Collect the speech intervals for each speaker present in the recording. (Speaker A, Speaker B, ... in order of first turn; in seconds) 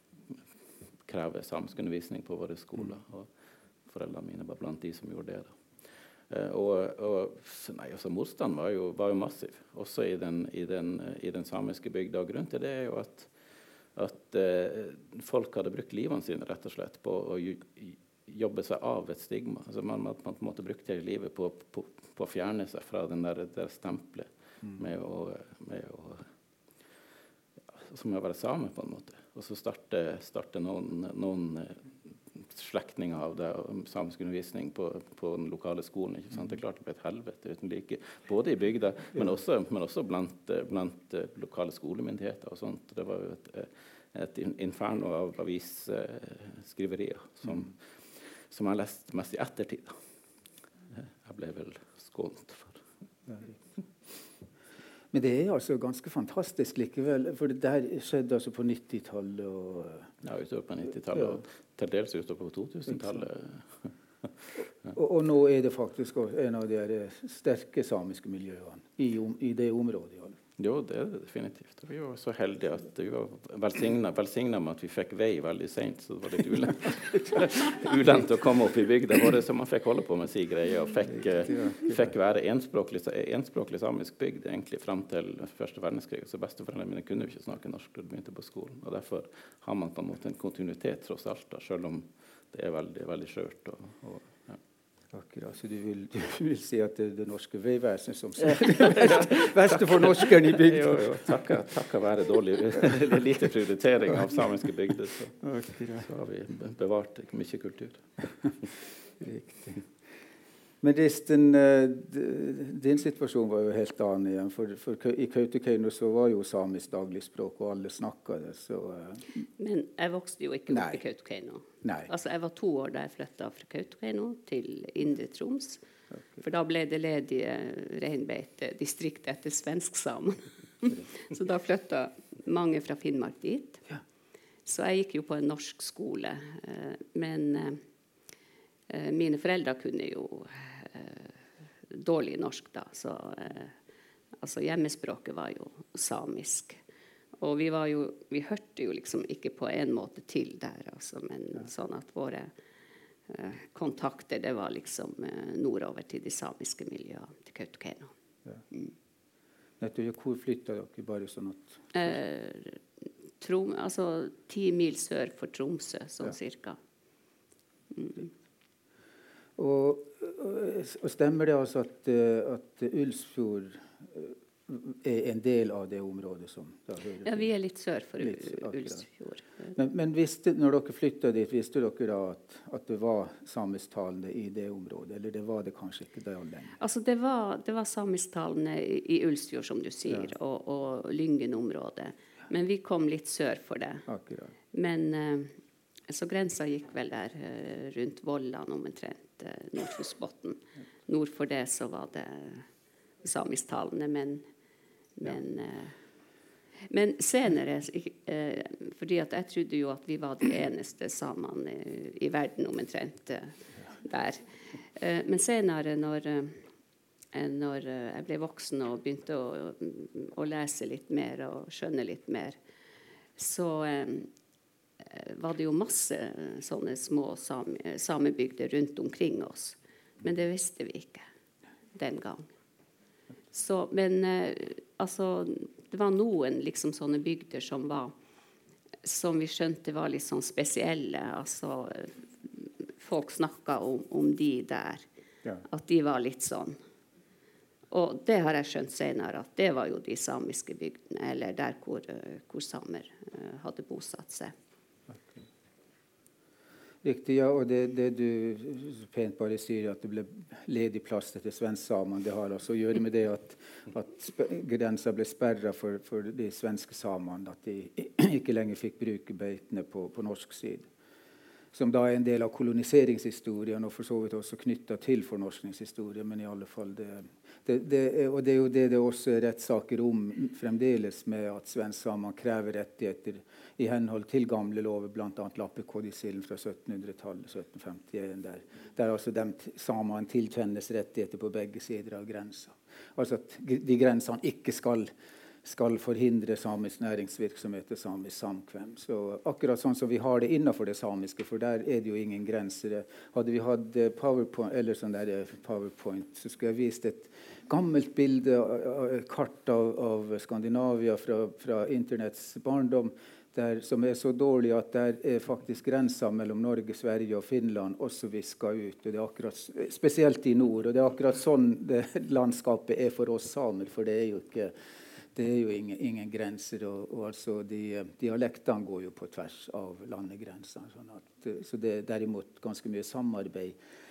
Speaker A: 1.0-3.3, 3.9-5.6, 6.3-13.3, 13.9-26.3, 27.7-50.0, 50.9-52.8, 60.2-64.3, 70.6-94.6, 98.6-105.4, 105.9-108.0
Speaker B: 55.1-60.1, 64.9-70.4, 95.1-101.3, 105.4-106.1, 109.2-109.8, 110.8-119.4, 120.7-121.0, 121.8-122.1, 126.1-126.4, 159.8-162.2, 169.6-177.5, 178.2-179.0, 179.8-186.7, 194.1-194.5, 257.0-270.9, 271.7-295.1, 295.6-324.7, 325.3-333.8
Speaker C: 119.6-125.8, 126.4-133.9, 134.7-137.8, 138.9-141.3, 141.9-143.8, 144.4-146.8, 147.4-152.5, 153.3-158.1, 161.9-162.8, 163.4-166.8, 167.9-168.3, 177.2-179.8, 186.8-194.1, 194.7-195.5, 196.1-202.7, 203.2-204.4, 205.2-206.0, 206.9-216.6, 217.3-222.6, 223.4-224.3, 225.1-231.2, 231.9-232.5, 233.5-238.1, 239.0-245.1, 245.7-246.8, 247.9-254.5